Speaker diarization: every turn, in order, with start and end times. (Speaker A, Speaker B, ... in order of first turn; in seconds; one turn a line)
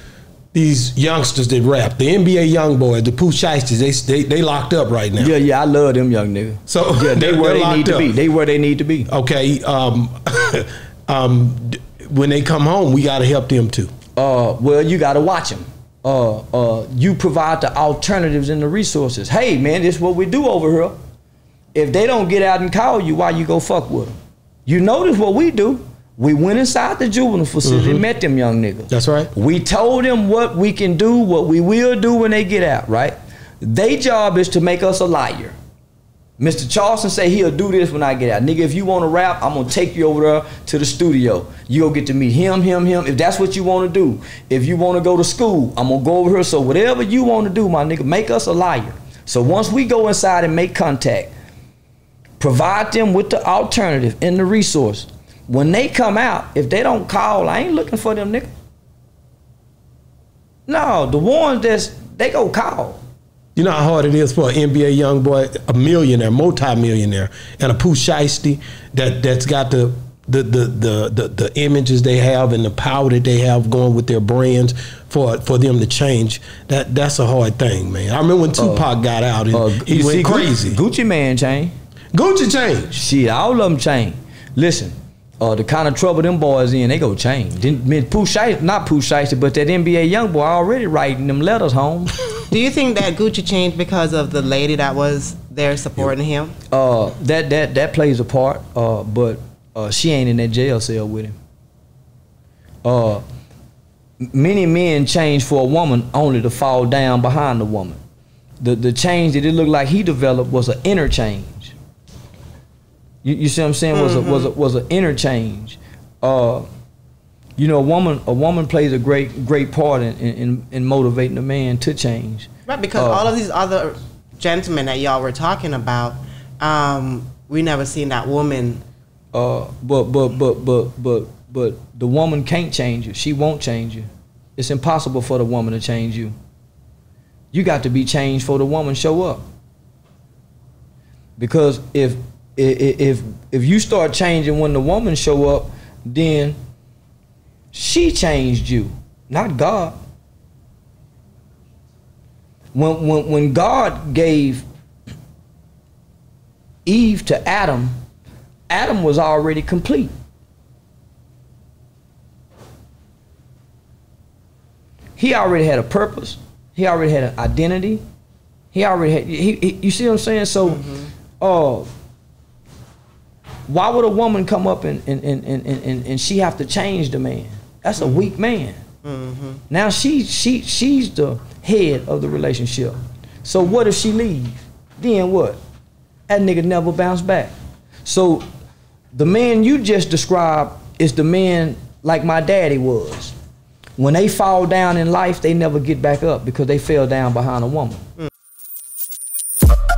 Speaker A: 0.5-5.3
Speaker B: 5.2-9.1
Speaker A: 6.7-8.1
Speaker A: 9.1-13.9
Speaker B: 14.2-20.9
Speaker B: 21.7-35.5
Speaker A: 27.6-28.0
Speaker A: 28.9-29.3
Speaker B: 36.4-51.3
Speaker B: 52.4-58.5
Speaker B: 60.7-63.0
Speaker A: 63.5-80.8
Speaker B: 78.6-78.9
Speaker B: 79.5-81.7
Speaker A: 82.1-83.0
Speaker B: 82.9-92.1
Speaker C: 92.5-96.5
Speaker B: 96.7-101.3
Speaker B: 102.8-103.2
Speaker B: 104.2-108.0
Speaker B: 108.6-111.7
Speaker B: 113.2-116.7
Speaker C: 113.9-114.5
Speaker B: 117.6-123.3
Speaker C: 122.7-128.8
Speaker B: 129.3-136.3
Speaker B: 137.5-139.4
Speaker B: 141.4-146.6
Speaker B: 147.7-149.9
Speaker B: 152.7-154.7
Speaker B: 156.8-157.9
Speaker B: 158.7-160.1
Speaker B: 165.2-168.0
Speaker B: 168.7-170.9
Speaker C: 170.7-171.0
Speaker B: 171.4-171.9
Speaker B: 173.7-178.8
Speaker C: 178.0-178.2
Speaker C: 179.0-179.6
Speaker B: 179.7-185.6
Speaker B: 186.3-187.5
Speaker B: 188.0-188.4
Speaker B: 189.1-193.3
Speaker B: 194.0-198.0